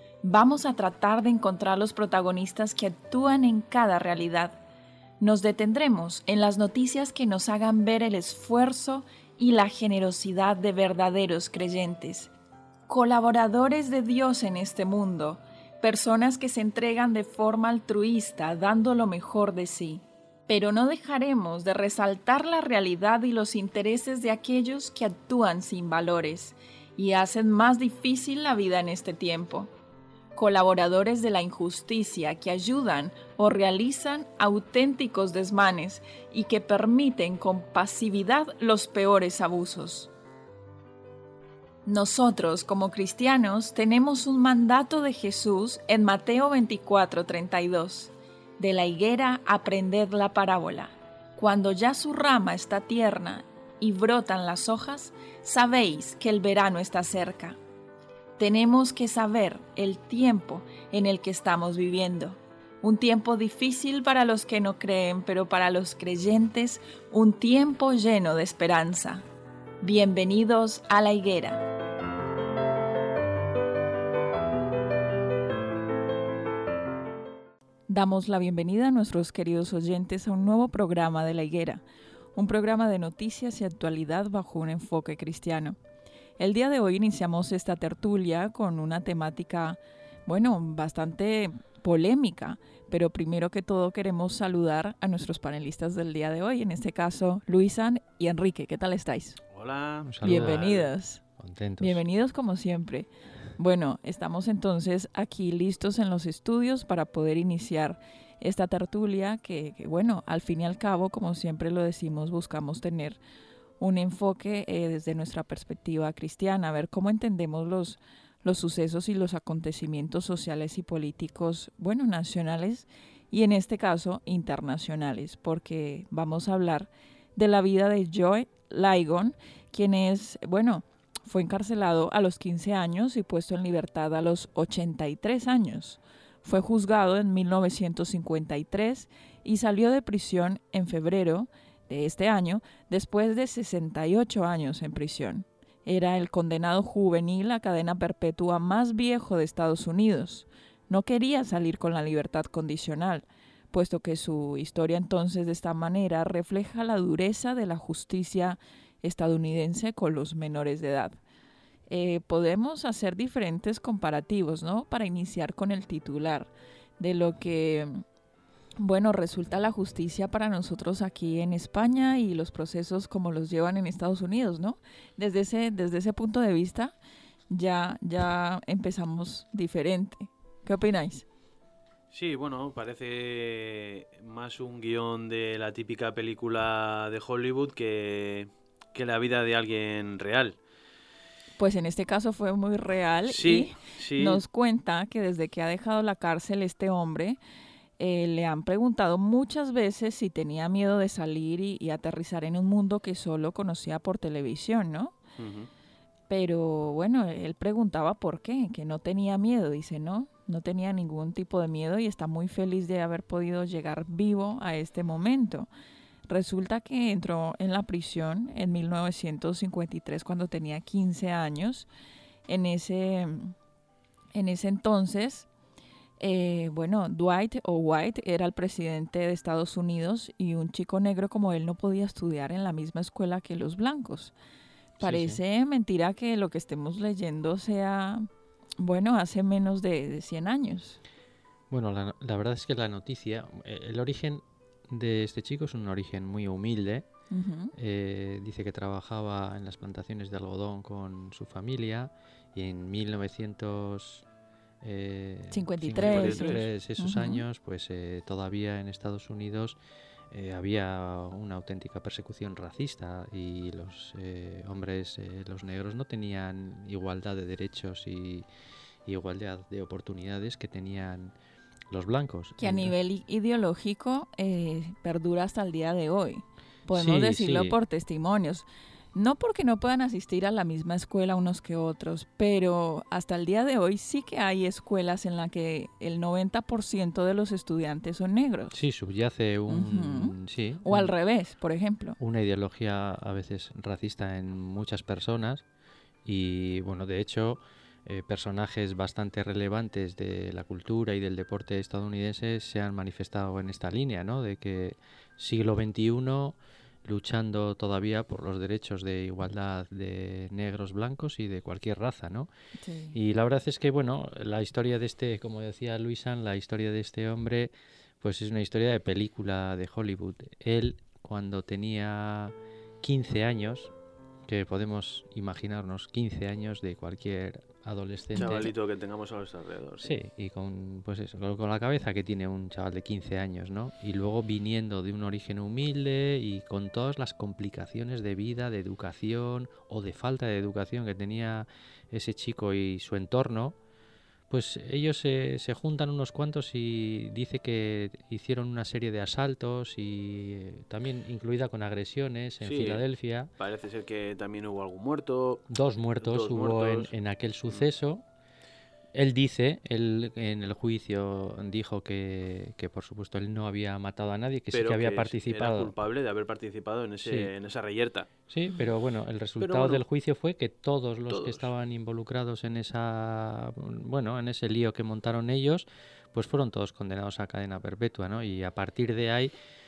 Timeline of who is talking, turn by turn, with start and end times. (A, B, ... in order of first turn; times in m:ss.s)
0:00.2-0:04.6 A
0:05.2-0:12.3 A
0:12.9-0:29.7 A
0:30.3-0:40.1 A
0:41.8-0:57.6 A
0:58.4-1:09.2 A
1:09.8-1:11.6 A
1:17.9-1:21.8 A
1:22.3-1:25.8 A
1:26.4-1:39.4 A
1:39.5-1:40.9 B
1:40.0-1:40.6 C
1:40.2-1:41.2 A
1:41.4-1:42.0 C
1:41.8-1:53.2 A
1:53.8-2:41.2 A
2:41.9-2:48.0 A
2:48.8-2:56.9 A
2:57.5-3:01.2 A
3:02.1-3:10.6 B
3:11.6-3:17.4 A
3:13.3-3:14.4 B
3:18.0-3:25.2 A
3:25.4-3:25.7 B
3:26.3-3:35.7 A
3:36.3-3:41.9 A
3:42.5-3:43.5 A
3:44.3-3:45.5 A
3:46.2-3:54.3 A
3:55.0-3:58.3 A
3:55.0-3:55.4 C
3:58.8-4:01.0 A
4:01.7-4:07.0 C
4:07.3-4:07.7 A
4:07.8-4:14.2 C
4:14.8-4:19.8 C
4:15.5-4:17.4 A
4:16.0-4:16.7 B
4:20.3-4:28.4 C
4:29.0-4:31.3 C
4:31.9-4:32.9 C
4:32.6-4:48.8 A
4:36.9-4:37.8 C
4:48.7-4:51.1 C
4:49.7-4:52.2 A
4:52.2-4:55.6 C
4:56.2-5:12.5 C
5:12.8-5:13.2 A
5:13.1-5:23.9 C
5:24.4-5:28.7 C
5:28.3-5:30.1 B
5:30.0-5:43.8 C
5:44.5-5:53.5 C
5:52.6-5:53.0 B
5:53.6-5:55.6 B
5:55.7-5:58.2 C
5:56.2-5:57.1 B
5:59.1-6:05.9 C
6:04.7-6:08.3 B
6:07.2-6:07.5 C
6:08.5-6:19.5 C
6:09.6-6:10.0 B
6:11.3-6:11.7 B